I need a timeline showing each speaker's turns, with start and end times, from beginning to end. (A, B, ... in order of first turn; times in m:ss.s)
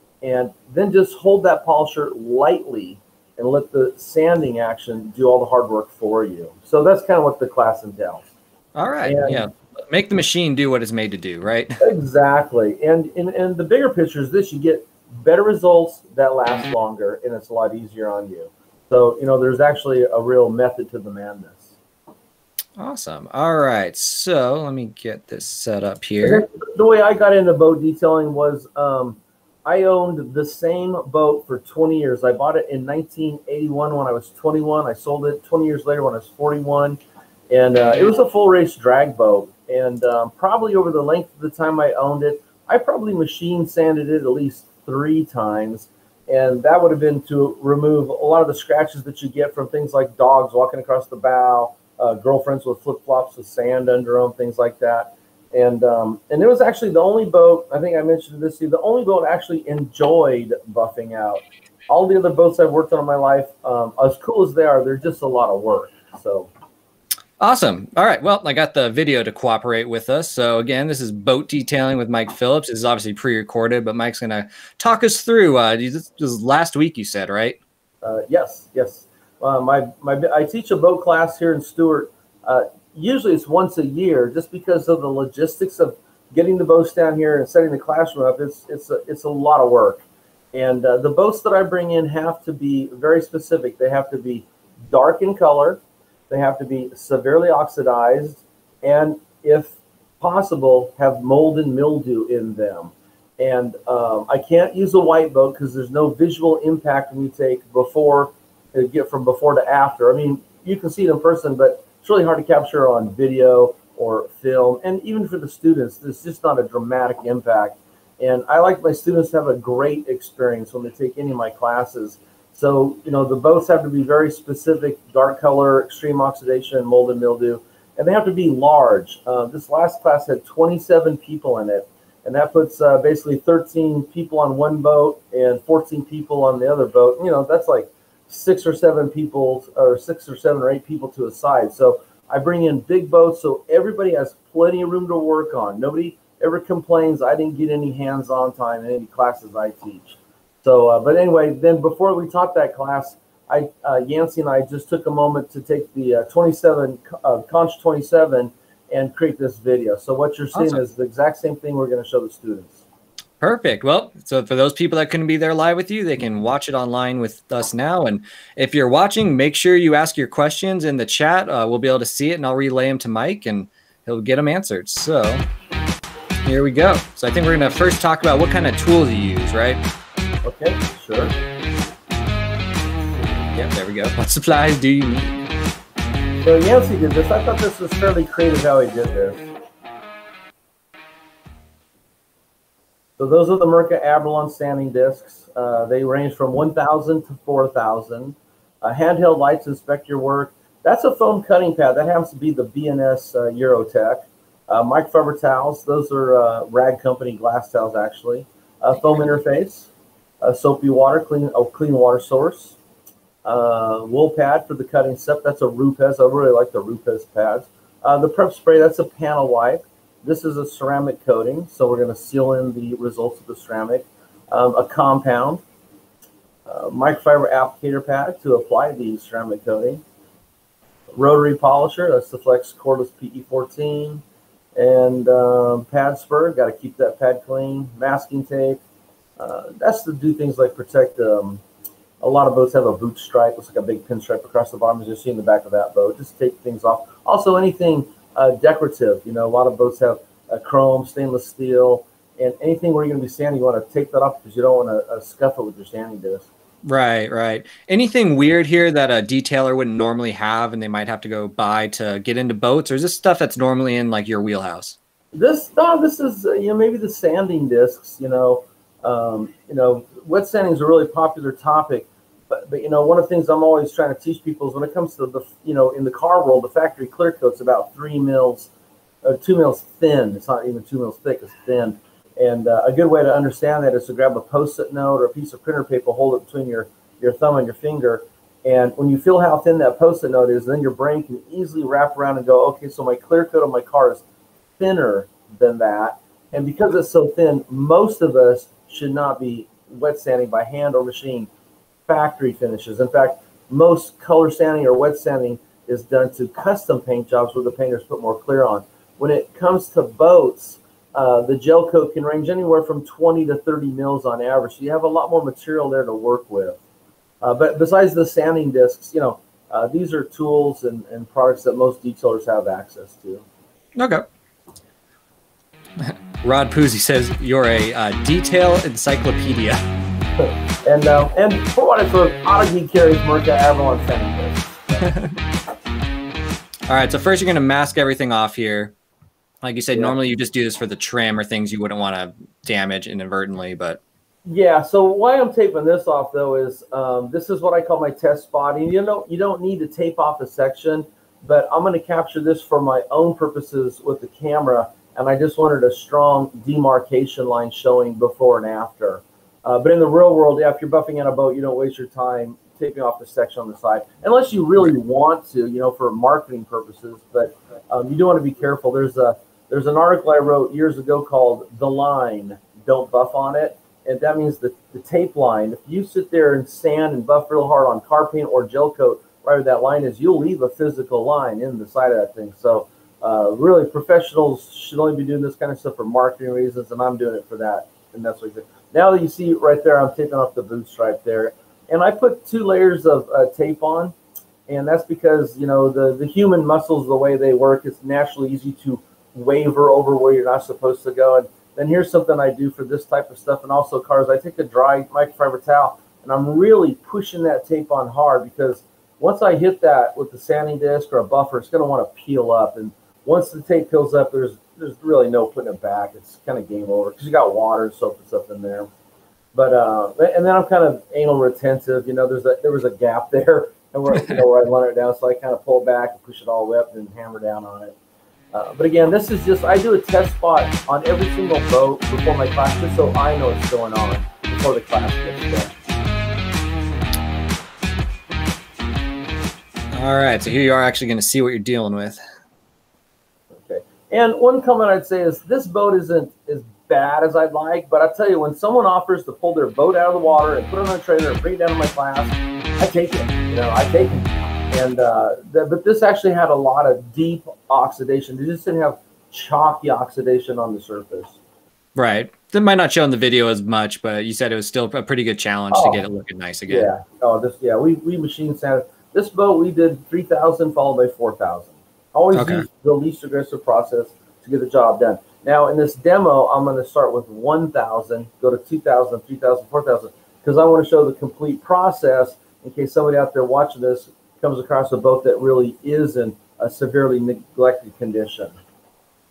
0:00.2-0:08.3 A
0:08.8-0:11.8 B
0:09.0-0:09.4 A
0:11.8-0:21.8 A
0:22.8-0:26.4 B
0:26.2-1:06.5 A
1:07.4-1:17.6 B
1:18.0-2:42.8 A
2:40.5-2:40.8 B
2:43.4-2:55.5 B
2:56.4-2:59.8 B
3:00.4-3:01.4 A
3:03.5-3:05.4 B
3:06.4-3:09.5 A
3:13.2-3:29.9 A
3:30.4-3:32.8 A
3:33.4-3:45.6 A
3:46.7-3:50.0 A
3:51.2-3:54.2 A
3:54.8-3:58.8 A
3:59.4-4:01.6 A
4:02.2-4:16.5 A
4:16.8-4:25.0 B
4:25.3-4:38.7 A
4:39.2-4:54.2 A
4:54.8-5:01.5 A
5:02.1-5:16.8 A
5:17.4-5:23.4 A
5:24.0-5:24.3 B
5:26.0-5:29.8 B
5:30.4-5:35.1 A
5:35.0-5:35.4 B
5:36.9-5:38.9 B
5:39.6-5:44.0 B
5:44.4-6:34.1 A
6:34.7-6:58.9 A
6:59.6-7:08.0 A
7:08.5-7:15.7 A
7:19.9-7:22.2 B
7:23.6-7:41.4 A
7:42.0-7:46.9 B
7:45.7-7:46.0 A
7:46.7-8:08.6 A
7:52.3-7:52.7 B